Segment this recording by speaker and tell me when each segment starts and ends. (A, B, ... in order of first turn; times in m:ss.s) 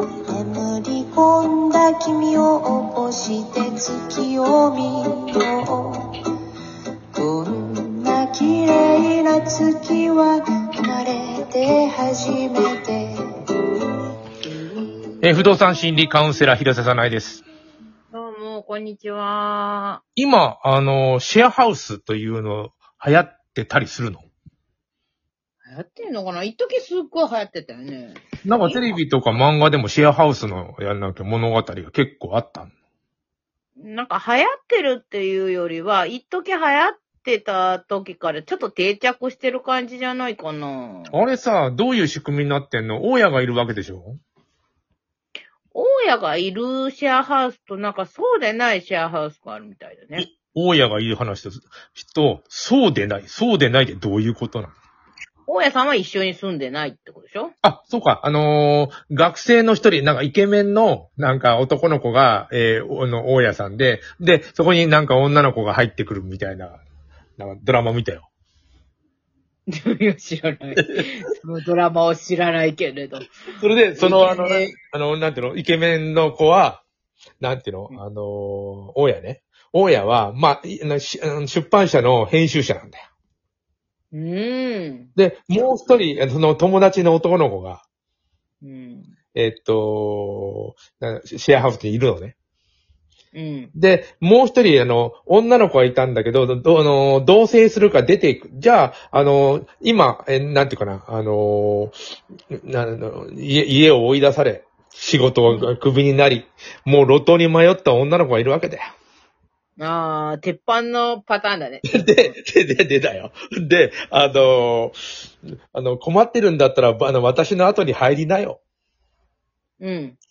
0:00.3-0:06.2 A
0:07.1-0:13.2 A
0:15.2-0:17.4 B
0:18.1-0:20.0 C
0:20.2-0:24.3 B
0:25.6-0:28.9 C
0:28.4-0:32.7 B
0:33.8-0:41.2 C
0:41.1-0:44.2 B
0:45.7-0:50.3 C
0:50.2-0:54.7 B
0:55.5-0:57.5 C
0:57.6-1:06.8 B
1:07.4-1:08.3 B
1:09.7-1:13.3 C
1:13.6-1:16.8 B
1:14.0-1:14.7 C
1:17.4-1:23.0 B
1:24.1-1:25.7 C
1:25.2-1:27.8 B
1:28.6-1:29.1 C
1:29.4-1:32.3 B
1:33.3-1:33.7 C
1:33.8-1:42.0 B
1:42.5-1:48.9 B
1:49.8-1:52.4 C
1:51.9-1:55.0 B
1:55.7-1:58.6 B
1:59.8-2:00.2 C